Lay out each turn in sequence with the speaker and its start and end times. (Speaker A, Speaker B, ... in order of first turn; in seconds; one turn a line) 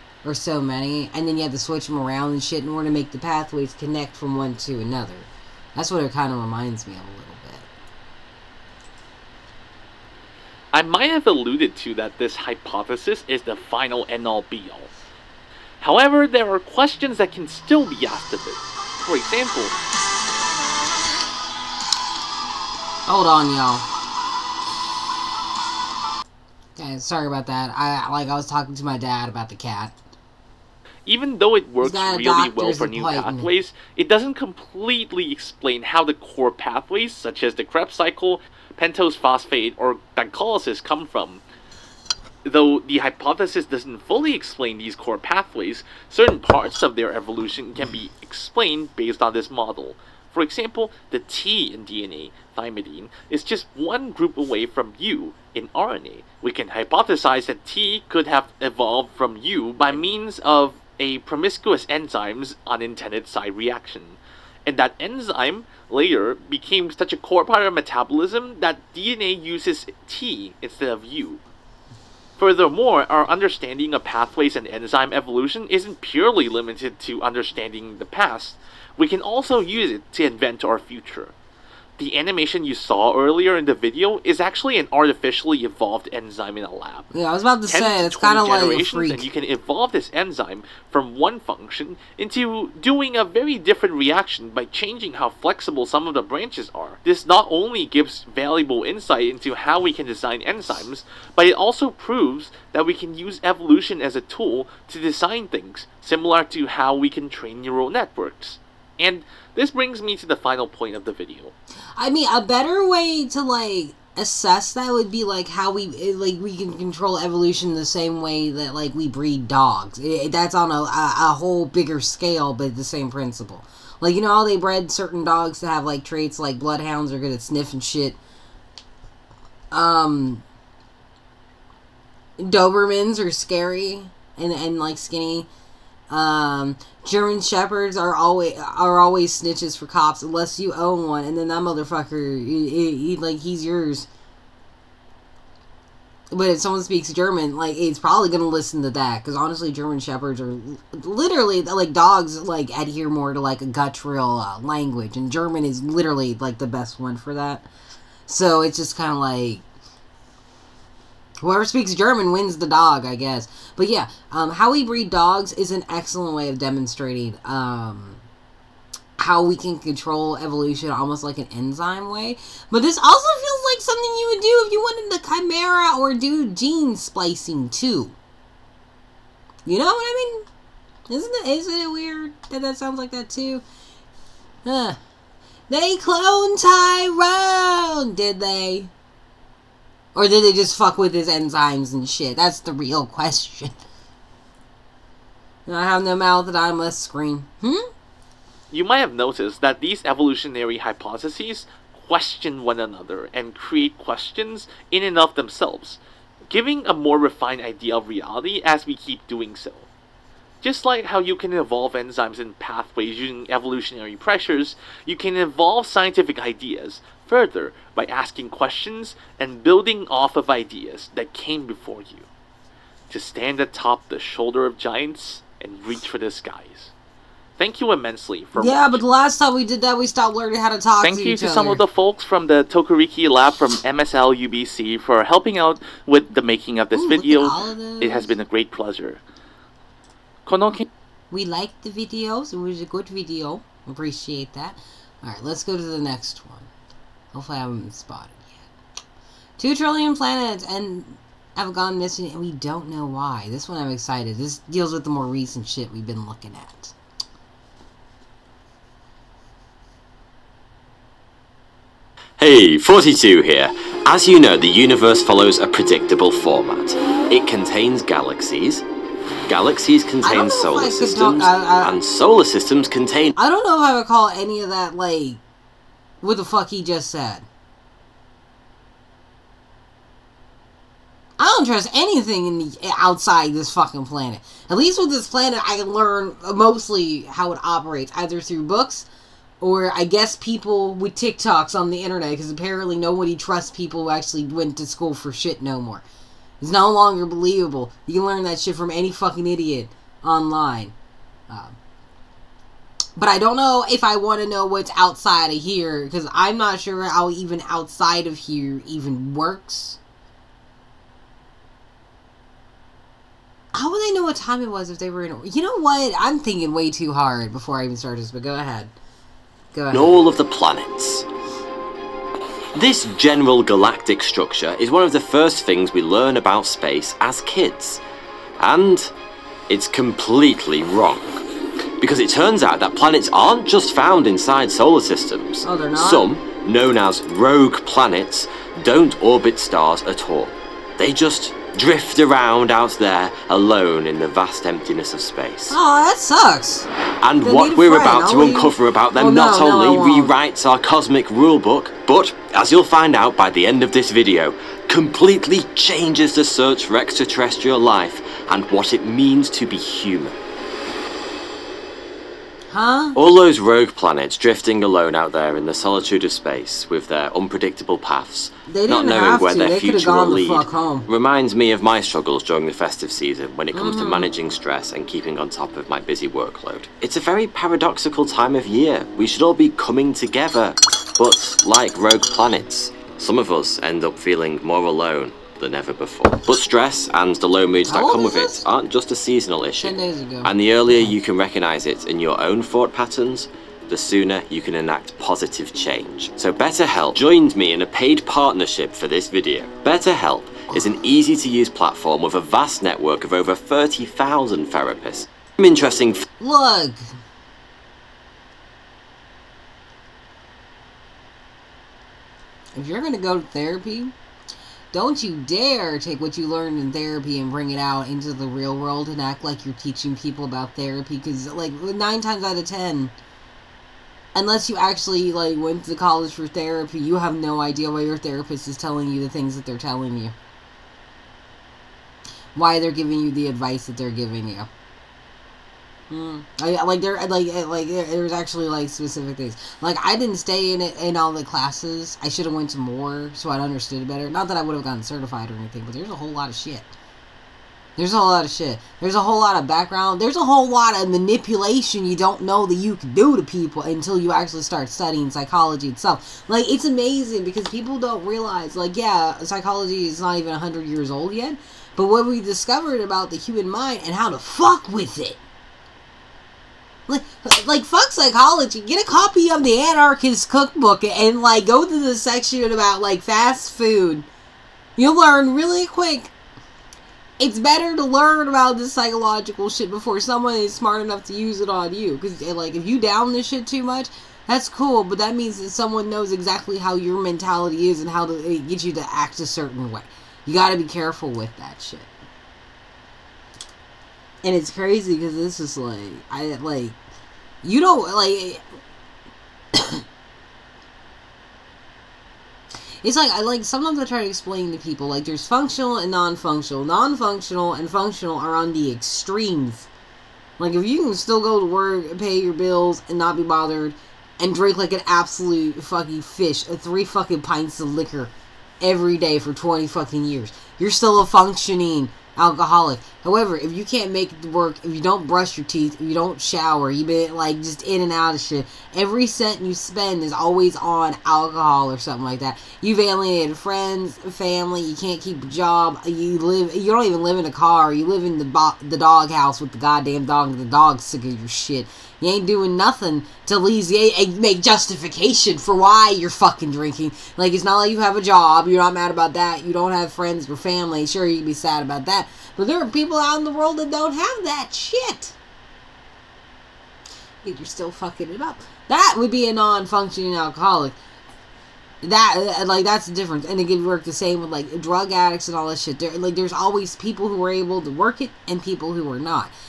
Speaker A: 0.2-7.7
Speaker B: 10.7-14.9
Speaker B: 15.8-19.8
Speaker A: 23.1-23.9
Speaker A: 26.8-30.0
Speaker B: 31.1-41.4
Speaker A: 31.8-33.5
Speaker B: 42.5-71.4
Speaker B: 72.4-81.3
Speaker B: 82.0-87.1
Speaker A: 87.1-89.3
Speaker B: 87.7-111.5
Speaker A: 112.0-128.2
Speaker A: 129.7-130.4
Speaker A: 132.4-135.5
Speaker A: 136.1-144.1
Speaker A: 146.3-157.7
Speaker A: 158.3-159.6
Speaker A: 161.4-168.2
Speaker A: 169.2-178.2
Speaker A: 179.7-180.5
Speaker A: 181.1-183.6
Speaker A: 184.7-185.0
Speaker A: 185.7-188.9
Speaker A: 190.1-193.8
Speaker A: 195.7-197.9
Speaker B: 198.7-209.9
Speaker B: 210.6-222.3
Speaker B: 223.1-226.9
Speaker B: 227.6-229.0
Speaker A: 228.6-231.8
Speaker B: 231.0-239.2
Speaker A: 236.9-238.3
Speaker B: 240.5-240.9
Speaker A: 241.3-246.7
Speaker A: 247.3-248.7
Speaker A: 249.6-256.9
Speaker C: 262.4-268.8
Speaker C: 269.5-273.4
Speaker A: 270.2-272.0
Speaker A: 273.4-275.4
Speaker A: 276.2-277.5
Speaker A: 281.4-289.1
Speaker A: 289.6-296.1
Speaker A: 296.6-300.9
Speaker A: 301.5-301.8
Speaker A: 303.2-310.0
Speaker A: 313.7-318.9
Speaker A: 319.7-320.2
Speaker C: 319.9-321.3
Speaker C: 322.7-328.0
Speaker C: 328.6-329.1
Speaker C: 329.7-331.4
Speaker C: 332.0-345.8
Speaker A: 335.6-336.3
Speaker A: 345.7-346.9
Speaker C: 347.2-360.3
Speaker A: 347.4-350.4
Speaker A: 362.7-363.2
Speaker C: 363.1-406.3
Speaker A: 368.7-371.1
Speaker A: 373.7-374.3
Speaker A: 387.9-388.6
Speaker A: 389.8-390.5
Speaker A: 406.4-407.0
Speaker A: 412.8-414.1
Speaker A: 414.9-423.1
Speaker A: 424.4-430.3
Speaker A: 432.6-434.7
Speaker A: 436.1-446.9
Speaker A: 448.0-465.4
Speaker A: 467.1-474.3
Speaker A: 475.0-476.3
Speaker A: 477.4-492.1
Speaker A: 494.4-497.0
Speaker A: 497.6-498.6
Speaker A: 499.7-500.0
Speaker A: 503.0-509.9
Speaker A: 510.6-555.4
Speaker A: 557.4-561.0
Speaker A: 562.0-569.5